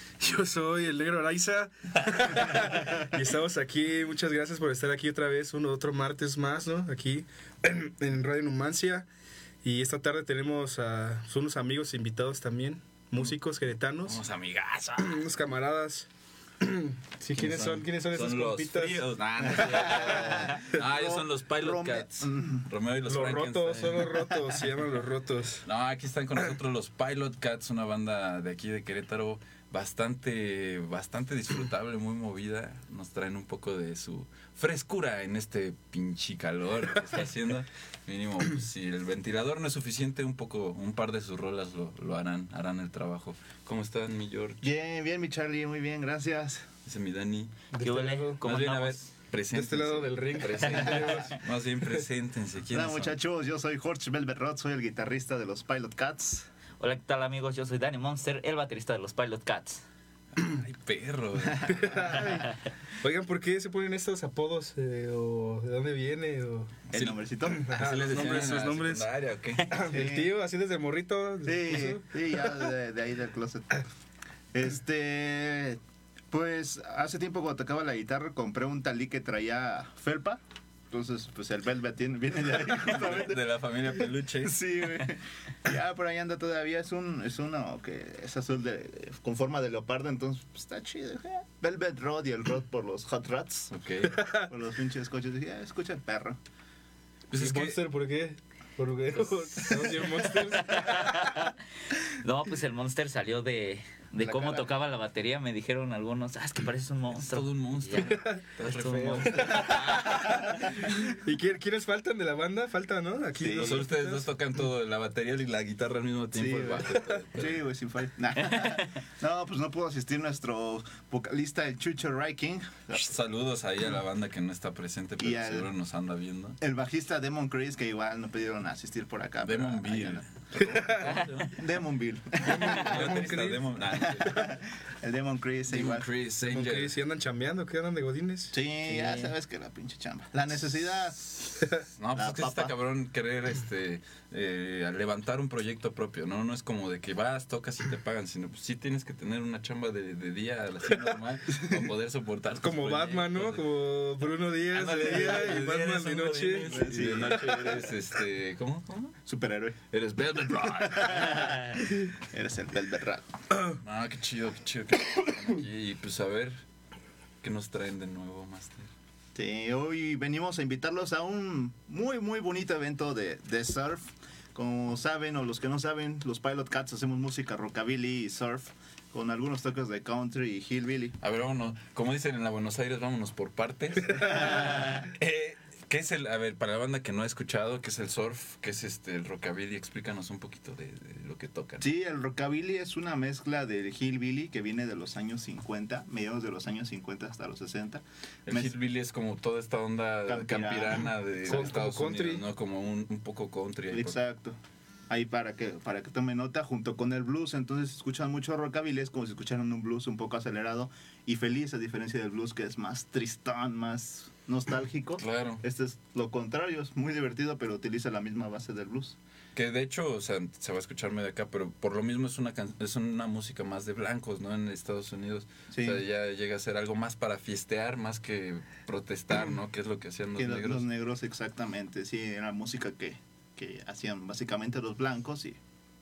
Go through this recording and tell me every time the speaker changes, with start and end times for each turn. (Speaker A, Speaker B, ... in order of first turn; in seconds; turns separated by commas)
Speaker A: 0.2-9.1, Speaker A: 9.6-14.2, Speaker B: 14.1-15.2, Speaker A: 15.0-16.1, Speaker A: 16.6-19.0, Speaker B: 17.4-24.3, Speaker C: 19.5-22.7, Speaker A: 23.1-25.6, Speaker B: 25.6-44.6, Speaker C: 44.6-46.7, Speaker B: 46.9-47.7, Speaker A: 47.7-48.4, Speaker D: 47.8-49.0, Speaker B: 48.4-53.2, Speaker A: 49.5-51.4, Speaker C: 52.7-56.5, Speaker D: 56.8-59.8, Speaker B: 60.4-62.2, Speaker A: 61.7-62.5, Speaker A: 63.0-66.7, Speaker C: 66.9-67.7, Speaker B: 66.9-69.8, Speaker A: 67.5-69.1, Speaker A: 69.7-72.1, Speaker C: 69.9-70.3, Speaker C: 71.4-73.8, Speaker C: 74.5-83.4, Speaker B: 82.8-85.0, Speaker C: 84.4-93.7, Speaker B: 93.7-94.2, Speaker A: 94.2-94.5, Speaker C: 94.5-96.4, Speaker B: 97.3-97.8, Speaker A: 97.3-101.3, Speaker B: 99.3-100.1, Speaker D: 100.6-101.5, Speaker D: 102.0-110.2, Speaker C: 104.2-104.7, Speaker B: 107.1-110.5, Speaker A: 108.0-114.2, Speaker C: 113.4-113.9, Speaker B: 113.5-117.6, Speaker C: 116.3-123.1, Speaker D: 118.5-118.9, Speaker B: 122.9-126.6, Speaker C: 125.2-125.7, Speaker C: 126.6-130.2, Speaker B: 129.4-131.7, Speaker A: 130.6-131.0, Speaker D: 131.0-131.3, Speaker C: 131.5-133.1, Speaker A: 132.4-133.6, Speaker B: 132.5-134.6, Speaker C: 134.1-136.1, Speaker B: 135.7-136.9, Speaker A: 136.4-138.6, Speaker C: 138.5-141.6, Speaker D: 138.8-139.3, Speaker B: 142.0-153.6, Speaker C: 142.1-142.7, Speaker A: 152.6-157.7, Speaker B: 154.7-159.2, Speaker C: 156.7-157.8, Speaker C: 159.3-159.8, Speaker B: 159.9-161.7, Speaker C: 160.8-163.3, Speaker B: 163.8-166.6, Speaker B: 167.4-168.9, Speaker C: 169.3-181.2, Speaker B: 181.2-191.9, Speaker C: 184.3-185.0, Speaker C: 191.8-198.7, Speaker B: 198.5-204.2, Speaker C: 200.3-201.1, Speaker A: 201.4-202.4, Speaker C: 203.9-204.6, Speaker C: 205.1-219.2, Speaker B: 215.2-215.6, Speaker B: 219.6-230.9, Speaker C: 225.7-226.0, Speaker C: 230.4-235.6